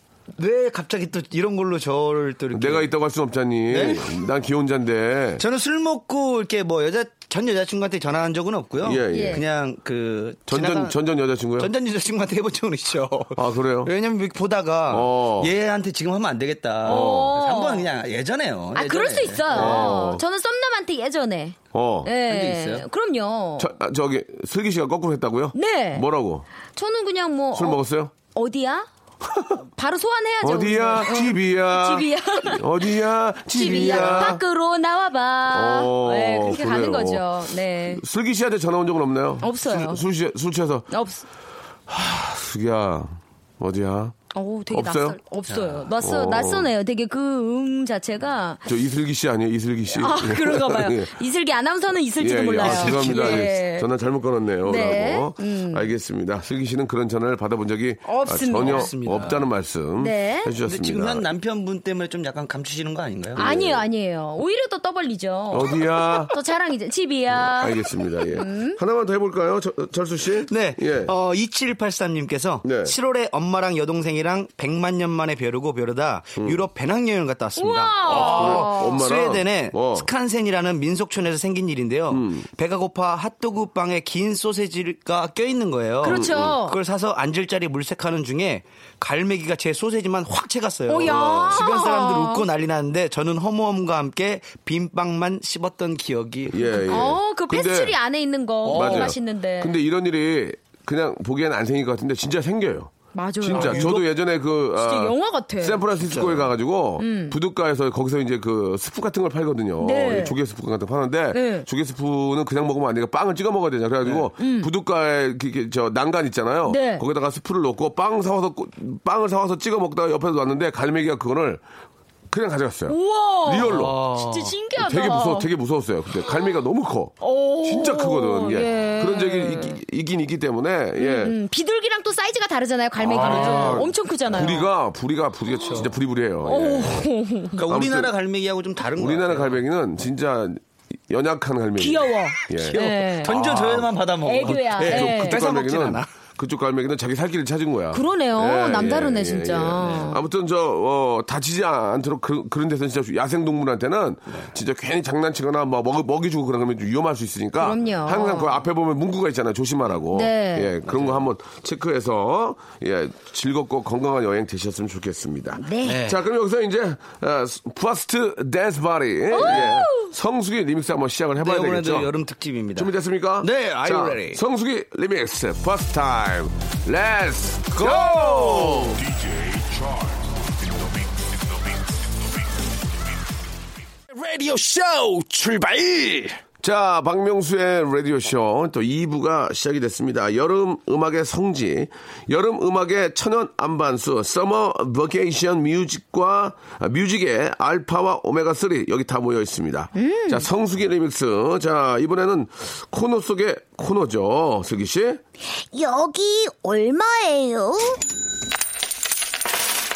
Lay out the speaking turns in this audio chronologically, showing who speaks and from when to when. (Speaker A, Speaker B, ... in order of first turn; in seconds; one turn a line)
Speaker A: 0.4-2.9
Speaker B: 2.5-5.4
Speaker A: 3.7-4.1
Speaker A: 5.4-11.0
Speaker B: 8.8-9.4
Speaker C: 9.1-9.4
Speaker B: 10.5-11.7
Speaker A: 11.6-20.0
Speaker B: 13.3-13.9
Speaker B: 14.9-15.5
Speaker B: 16.8-17.3
Speaker C: 16.9-17.9
Speaker C: 18.7-23.7
Speaker B: 19.5-20.2
Speaker B: 21.7-22.1
Speaker A: 22.3-22.8
Speaker B: 23.6-26.4
Speaker C: 25.5-26.0
Speaker C: 26.7-27.8
Speaker B: 27.5-28.1
Speaker C: 28.3-28.9
Speaker B: 29.2-29.6
Speaker C: 29.6-32.9
Speaker B: 30.4-34.4
Speaker C: 33.5-38.0
Speaker A: 33.6-34.4
Speaker B: 35.5-37.2
Speaker B: 37.9-40.9
Speaker C: 39.4-40.0
Speaker C: 40.9-41.2
Speaker B: 41.9-44.1
Speaker C: 44.3-48.6
Speaker B: 44.7-45.2
Speaker A: 45.5-45.9
Speaker B: 46.0-46.7
Speaker B: 48.6-51.1
Speaker C: 49.9-53.9
Speaker B: 52.2-61.2
Speaker A: 52.6-53.5
Speaker C: 54.6-55.9
Speaker C: 58.0-58.9
Speaker A: 58.5-59.5
Speaker C: 60.0-60.5
Speaker A: 60.6-63.5
Speaker B: 63.4-63.8
Speaker C: 63.4-68.8
Speaker B: 65.5-66.3
Speaker B: 67.3-71.1
Speaker A: 70.5-97.1
Speaker B: 72.6-72.9
Speaker C: 77.6-79.0
Speaker B: 78.0-80.1
Speaker B: 82.1-82.5
Speaker C: 86.0-86.8
Speaker B: 86.0-86.6
Speaker C: 90.9-92.5
Speaker B: 91.0-91.6
Speaker B: 96.5-98.0
Speaker C: 96.9-99.7
Speaker A: 98.6-99.1
Speaker B: 98.7-121.6
Speaker C: 103.1-103.9
Speaker A: 103.5-104.0
Speaker C: 104.8-105.8
Speaker A: 106.0-106.5
Speaker C: 107.0-107.3
Speaker C: 109.8-110.3
Speaker C: 111.3-111.7
Speaker C: 114.4-114.7
Speaker C: 116.7-117.0
Speaker B: 122.3-124.0
Speaker C: 122.9-125.5
Speaker A: 123.6-124.5
Speaker B: 124.8-131.3
Speaker C: 127.2-129.8
Speaker C: 131.0-134.7
Speaker B: 133.0-137.1
Speaker A: 133.1-133.9
Speaker A: 135.6-135.9
Speaker C: 136.4-137.6
Speaker A: 137.6-139.6
Speaker B: 137.6-138.1
Speaker B: 139.0-143.9
Speaker C: 141.8-143.3
Speaker A: 142.7-146.1
Speaker C: 144.2-145.4
Speaker B: 144.8-172.1
Speaker C: 147.9-150.2
Speaker A: 149.8-150.1
Speaker C: 157.6-158.6
Speaker C: 160.1-160.7
Speaker A: 160.9-161.2
Speaker C: 165.6-166.0
Speaker A: 165.8-166.2
Speaker C: 169.3-170.1
Speaker A: 169.4-169.8
Speaker A: 171.4-174.4
Speaker B: 172.8-179.0
Speaker A: 177.7-179.0
Speaker D: 178.9-182.4
Speaker D: 184.1-186.4
Speaker B: 186.6-205.2
Speaker C: 199.9-200.4
Speaker C: 205.7-208.0